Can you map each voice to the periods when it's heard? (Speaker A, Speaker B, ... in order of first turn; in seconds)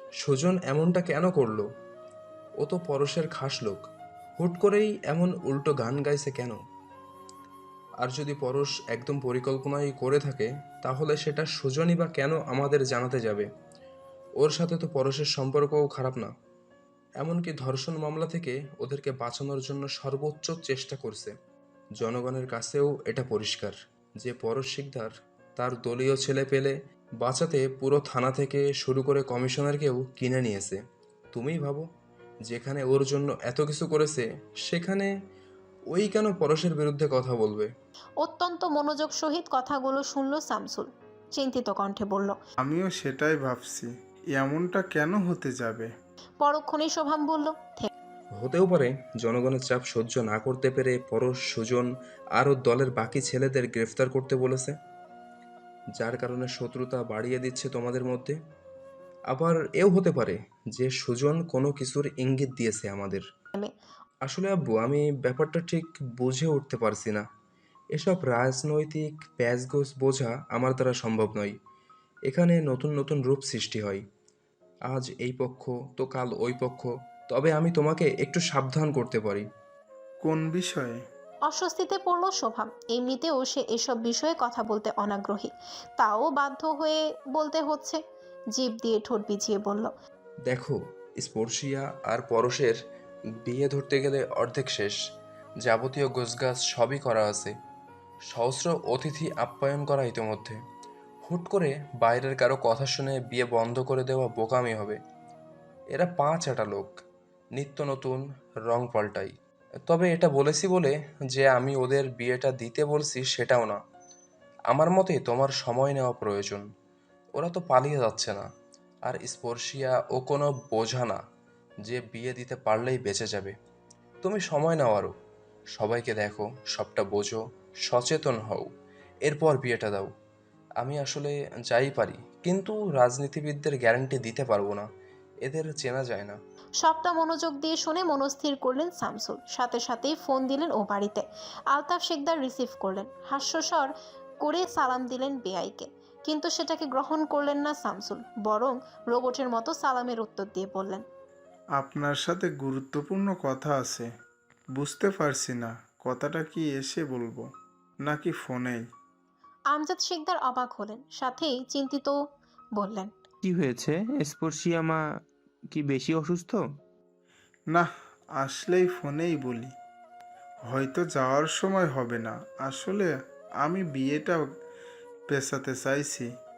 Speaker A: 0.2-1.7, 2.6-6.6, 8.0-13.5, 14.4-16.3, 17.2-21.3, 22.0-30.8, 31.3-31.9, 32.5-35.1, 35.9-37.7, 48.4-54.8, 56.0-58.4, 59.3-63.2, 64.2-67.2, 68.0-71.5, 72.3-74.0, 74.9-79.5, 90.5-92.8, 93.5-95.0, 95.6-97.5, 98.3-100.6, 101.3-105.0, 105.9-107.0, 107.6-109.3, 109.9-113.8, 114.7-116.6, 117.4-118.5, 119.1-121.2, 121.8-123.5, 124.2-125.1, 125.8-128.7, 129.2-130.1, 130.8-134.9, 135.4-136.4
Speaker B: 38.2-42.4, 46.4-47.9, 81.5-88.0, 88.5-89.9, 136.8-151.0, 159.7-162.2, 162.8-163.1
Speaker C: 42.6-45.9, 80.2-81.0, 151.8-154.1, 154.8-157.5, 158.0-158.8, 168.4-169.7, 170.7-173.1, 173.6-174.5, 175.3-176.3
Speaker D: 163.5-165.0, 165.8-166.6